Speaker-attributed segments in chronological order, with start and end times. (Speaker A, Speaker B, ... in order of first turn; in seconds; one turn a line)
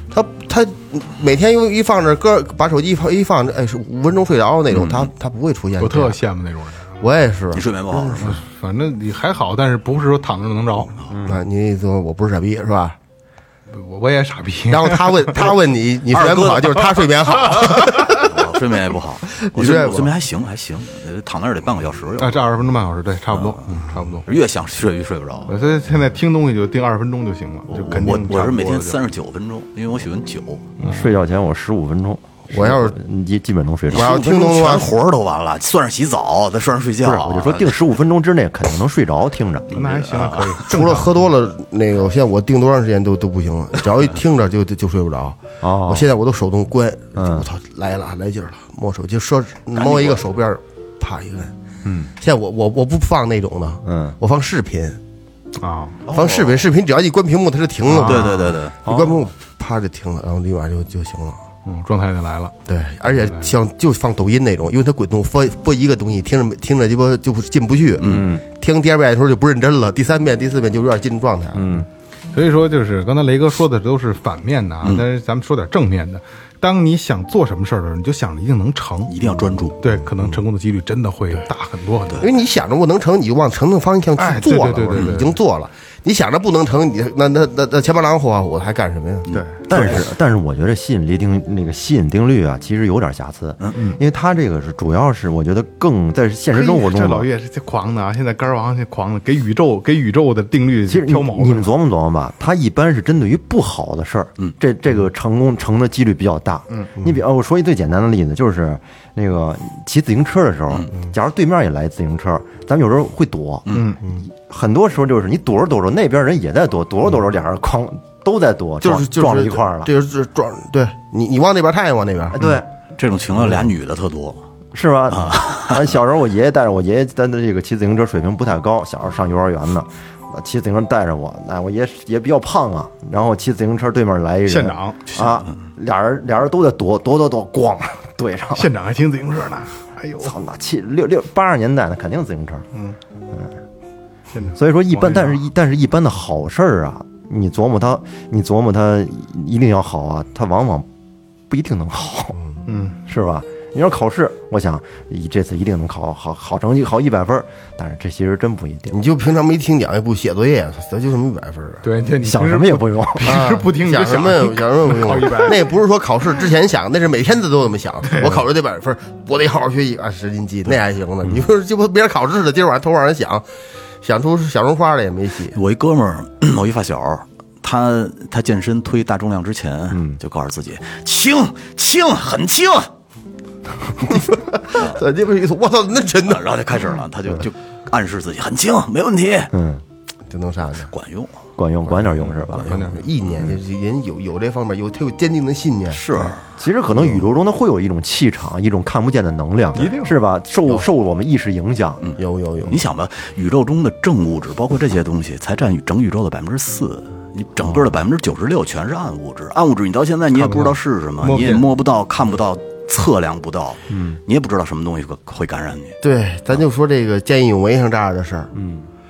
Speaker A: 0.1-6.2
Speaker B: 4.7-5.1
Speaker C: 5.8-7.1
Speaker A: 7.0-8.3
Speaker B: 7.5-8.4
Speaker C: 8.2-11.0
Speaker D: 11.1-11.4
Speaker A: 11.2-13.0
Speaker C: 13.7-15.5
Speaker A: 14.7-18.6
Speaker B: 16.1-22.4
Speaker A: 19.3-20.1
Speaker C: 22.2-24.3
Speaker B: 23.3-25.5
Speaker C: 25.5-29.0
Speaker B: 27.7-30.7
Speaker C: 30.8-31.1
Speaker D: 30.8-34.2
Speaker A: 32.5-33.0
Speaker B: 33.9-37.8
Speaker A: 33.9-35.0
Speaker D: 37.0-39.7
Speaker C: 39.7-41.2
Speaker B: 39.7-40.6
Speaker A: 40.6-51.5
Speaker D: 45.6-46.1
Speaker D: 47.2-47.5
Speaker B: 49.8-50.2
Speaker D: 51.9-52.1
Speaker A: 52.2-55.0
Speaker D: 53.9-54.2
Speaker C: 55.6-56.0
Speaker B: 56.1-56.6
Speaker A: 56.1-61.4
Speaker C: 57.9-58.5
Speaker B: 58.0-58.8
Speaker D: 58.9-59.2
Speaker C: 61.6-62.6
Speaker A: 62.7-71.7
Speaker C: 63.1-63.5
Speaker B: 68.0-68.3
Speaker D: 68.0-68.4
Speaker D: 71.5-71.9
Speaker C: 72.3-79.2
Speaker B: 79.1-79.8
Speaker C: 79.8-82.3
Speaker A: 82.2-90.0
Speaker C: 84.2-85.4
Speaker C: 89.3-90.0
Speaker D: 89.7-97.3
Speaker C: 96.5-101.7
Speaker D: 100.9-119.9
Speaker B: 113.7-113.9
Speaker C: 113.7-114.0
Speaker A: 118.8-122.4
Speaker D: 122.3-122.7
Speaker B: 123.0-124.4
Speaker D: 124.7-138.7
Speaker B: 125.1-125.8
Speaker C: 134.5-135.0
Speaker C: 138.5-140.3
Speaker D: 140.2-142.7
Speaker C: 144.3-145.4
Speaker D: 144.6-150.9
Speaker D: 151.5-152.4
Speaker C: 152.7-153.0
Speaker D: 153.1-159.0
Speaker A: 158.9-161.8
Speaker C: 161.8-165.7
Speaker D: 162.2-163.4
Speaker A: 163.2-173.4
Speaker C: 168.1-168.4
Speaker A: 174.0-175.6
Speaker B: 175.5-182.9
Speaker D: 179.9-180.2
Speaker A: 184.0-186.5
Speaker B: 184.7-185.0
Speaker B: 186.2-189.5
Speaker D: 189.5-189.8
Speaker A: 190.3-190.9
Speaker B: 190.9-191.4
Speaker D: 191.6-192.8
Speaker C: 192.2-193.1
Speaker A: 192.5-196.0
Speaker B: 195.9-196.4
Speaker D: 196.6-202.0
Speaker A: 197.0-197.2
Speaker C: 199.8-200.2
Speaker B: 202.0-216.0
Speaker A: 202.2-202.8
Speaker C: 210.3-211.7
Speaker D: 213.9-214.2
Speaker A: 216.0-218.5
Speaker D: 218.5-218.9